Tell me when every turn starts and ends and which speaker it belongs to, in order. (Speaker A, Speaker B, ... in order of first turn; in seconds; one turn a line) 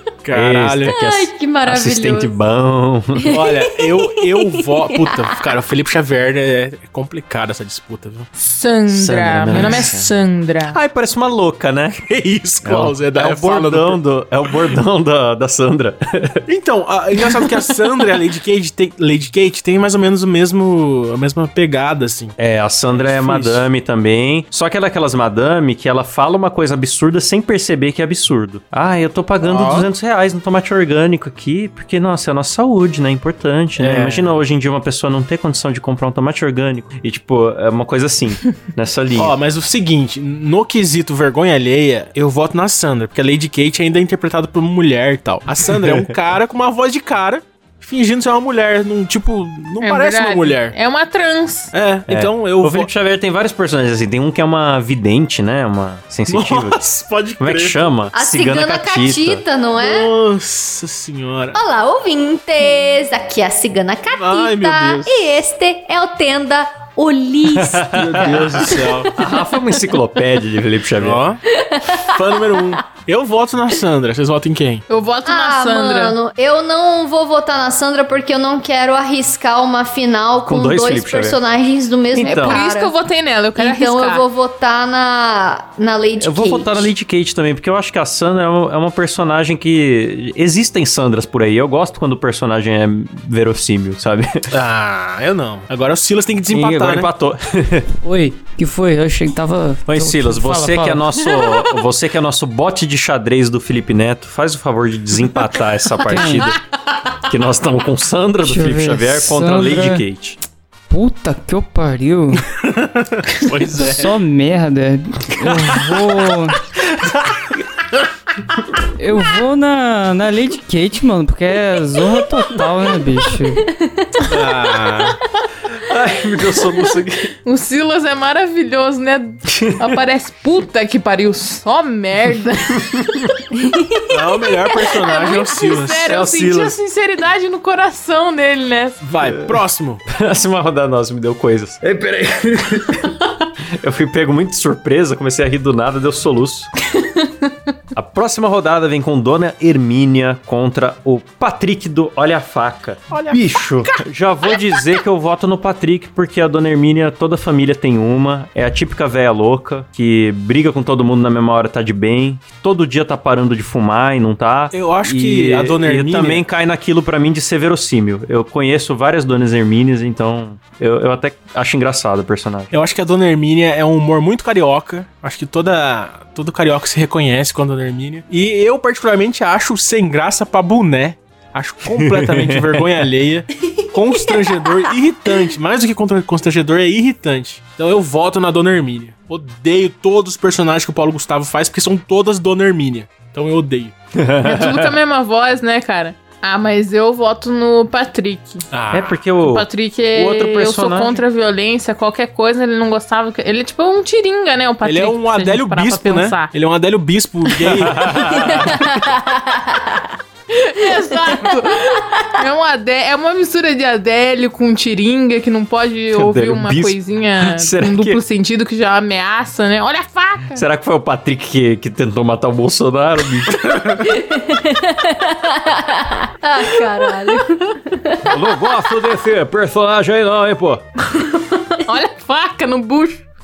Speaker A: 0.2-1.0
Speaker B: 0.3-3.4
Speaker C: 0.9-2.3
Speaker C: 3.2-5.4
Speaker A: 3.3-8.3
Speaker D: 8.4-10.8
Speaker B: 8.9-10.1
Speaker A: 9.5-9.8
Speaker B: 10.7-12.1
Speaker A: 12.1-14.0
Speaker B: 12.6-16.4
Speaker A: 16.5-22.4
Speaker B: 22.4-39.4
Speaker A: 22.9-23.6
Speaker A: 29.4-29.9
Speaker A: 33.8-34.3
Speaker A: 39.1-50.7
Speaker B: 45.8-46.1
Speaker D: 49.8-51.7
Speaker A: 51.7-52.9
Speaker B: 52.1-56.8
Speaker A: 56.3-57.8
Speaker B: 57.4-59.4
Speaker C: 58.1-60.1
Speaker A: 59.8-61.6
Speaker C: 61.5-69.4
Speaker A: 64.1-65.2
Speaker B: 67.5-71.2
Speaker A: 67.9-69.1
Speaker A: 71.0-71.4
Speaker C: 71.5-72.7
Speaker A: 71.9-74.8
Speaker D: 74.9-76.2
Speaker C: 75.3-82.9
Speaker B: 80.4-81.4
Speaker B: 82.1-82.6
Speaker D: 82.2-84.2
Speaker C: 83.6-86.9
Speaker B: 86.2-94.5
Speaker A: 94.5-97.1
Speaker B: 96.5-97.9
Speaker E: 98.0-101.1
Speaker B: 99.9-106.6
Speaker E: 106.0-106.5
Speaker B: 107.2-110.4
Speaker E: 108.4-110.0
Speaker E: 110.9-112.5
Speaker A: 112.6-114.1
Speaker E: 113.8-116.6
Speaker B: 115.4-115.8
Speaker B: 116.9-117.8
Speaker E: 119.0-123.7
Speaker C: 123.9-124.3
Speaker A: 124.2-125.2
Speaker B: 125.8-127.3
Speaker D: 127.5-133.2
Speaker B: 129.5-130.0
Speaker B: 132.8-133.3
Speaker C: 133.6-134.1
Speaker A: 134.1-136.1
Speaker D: 134.9-139.0
Speaker B: 136.1-136.8
Speaker A: 139.0-140.0
Speaker B: 139.3-139.6
Speaker B: 140.1-143.2
Speaker B: 143.8-146.7
Speaker B: 147.9-172.7
Speaker A: 153.1-154.0
Speaker A: 164.7-166.4
Speaker A: 172.7-193.9
Speaker B: 181.9-182.9
Speaker B: 194.1-194.9
Speaker D: 194.4-198.7
Speaker A: 198.7-199.1
Speaker B: 198.9-201.2
Speaker D: 199.4-206.5
Speaker A: 204.8-208.3
Speaker B: 207.8-208.8
Speaker C: 208.4-210.1
Speaker D: 210.5-220.6
Speaker C: 211.3-212.3
Speaker B: 216.1-218.2
Speaker B: 220.5-224.0
Speaker C: 224.0-228.3
Speaker B: 228.2-230.8
Speaker D: 231.7-233.2